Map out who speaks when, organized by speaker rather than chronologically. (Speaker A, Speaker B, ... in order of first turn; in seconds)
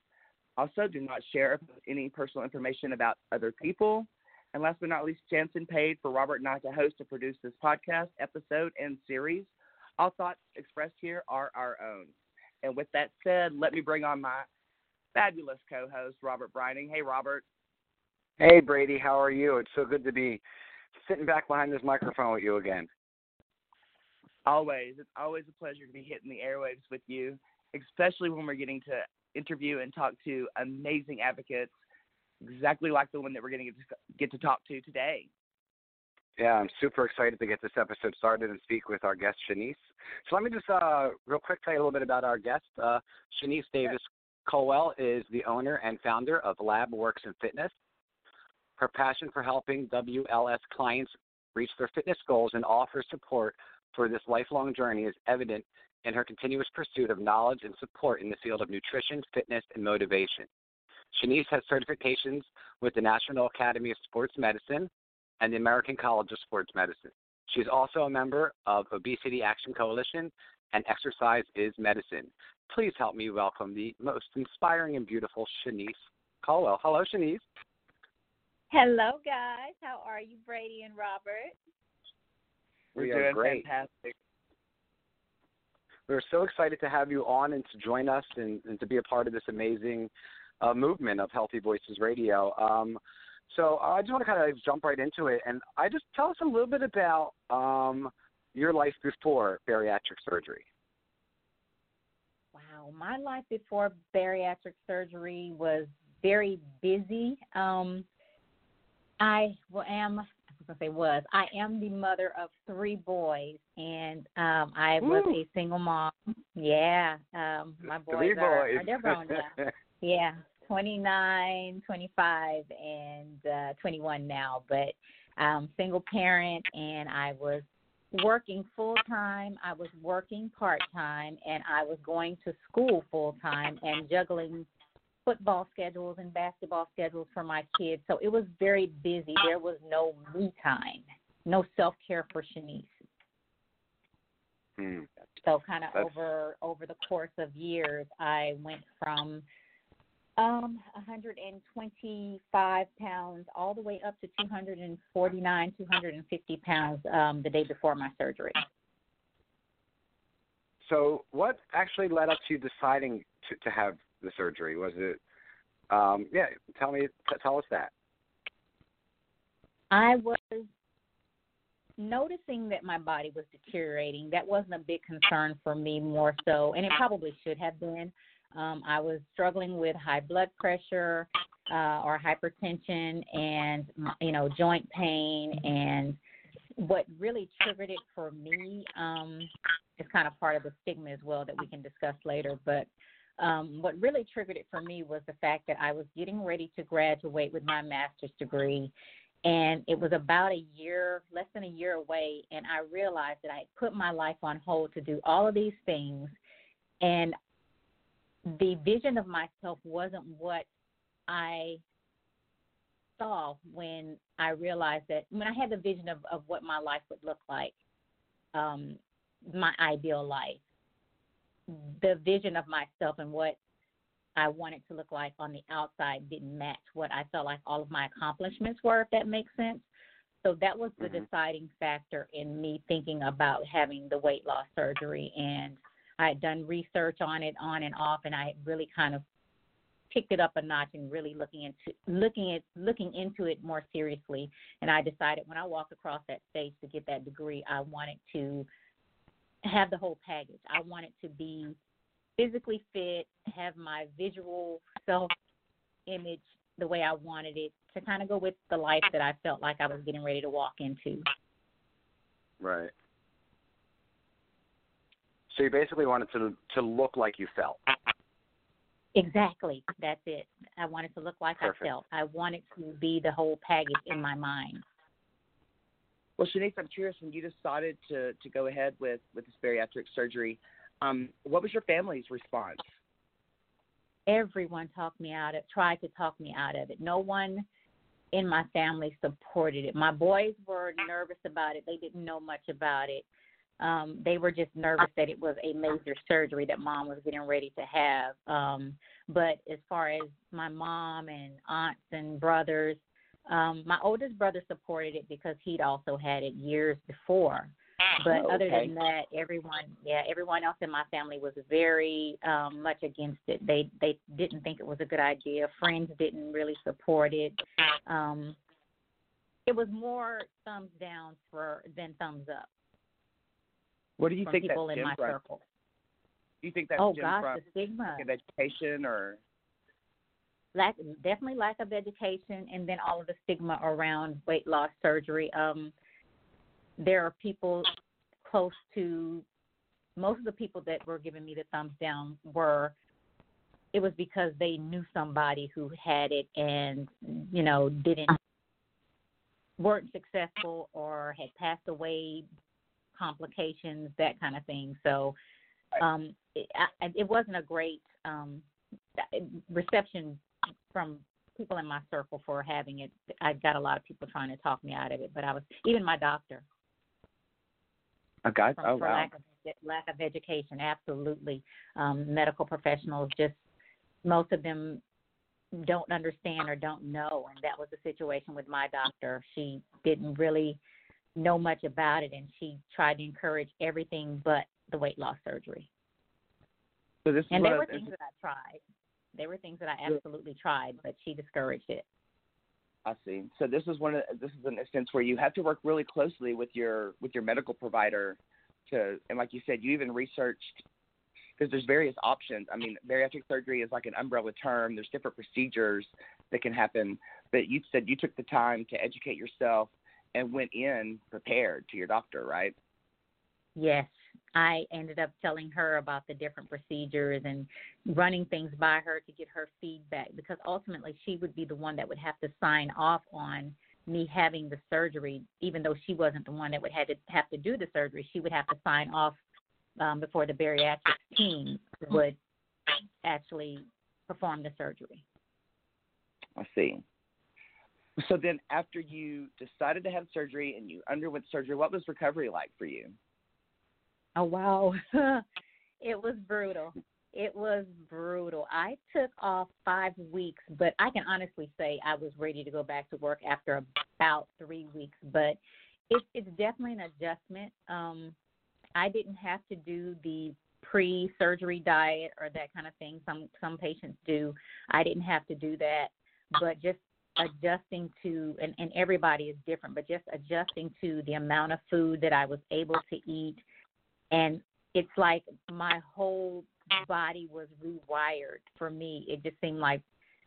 Speaker A: 0.6-14.4, 15.1-17.4, 24.4-31.7, 32.4-35.3, 82.9-84.1, 276.4-282.9, 308.2-308.9, 324.2-325.4, 326.6-327.6, 328.2-329.4, 368.4-369.3, 387.2-388.1, 393.0-400.8, 401.6-412.7, 436.6-437.0, 438.2-443.1
Speaker B: 18.4-20.4, 20.9-22.9, 36.4-47.7, 48.8-60.5, 61.1-64.9, 65.4-77.4, 83.0-83.7, 86.1-100.6, 118.1-119.7, 144.8-145.1, 160.8-165.2, 165.9-167.9, 262.6-262.9, 265.5-267.8
Speaker C: 78.7-81.5, 102.5-108.0, 109.2-134.7, 135.2-142.9, 145.4-149.4, 150.4-158.6, 169.9-170.7, 172.0-186.2, 186.8-198.9, 199.4-206.3, 207.0-207.3, 208.5-210.7, 211.3-211.8, 213.2-217.7, 218.5-220.6, 221.7-223.6, 224.3-229.8, 230.4-239.2, 240.1-248.7, 249.6-251.8, 252.4-255.3, 256.1-261.2, 269.1-274.8, 284.3-287.6, 288.3-293.2, 293.8-318.6, 319.6-322.7, 324.4-325.6, 327.0-328.3, 330.7-335.9, 337.0-337.9, 338.4-339.4, 340.2-342.9, 343.9-348.4, 349.8-352.5, 353.1-355.4, 356.0-358.6, 359.1-366.6, 368.8-373.6, 374.2-375.0, 375.7-380.8, 381.4-385.9, 387.5-388.8, 389.3-392.0, 413.8-429.4, 430.0-432.4, 433.2-435.2, 444.4-445.4, 446.0-455.6, 456.1-458.3, 459.0-473.6, 474.3-480.0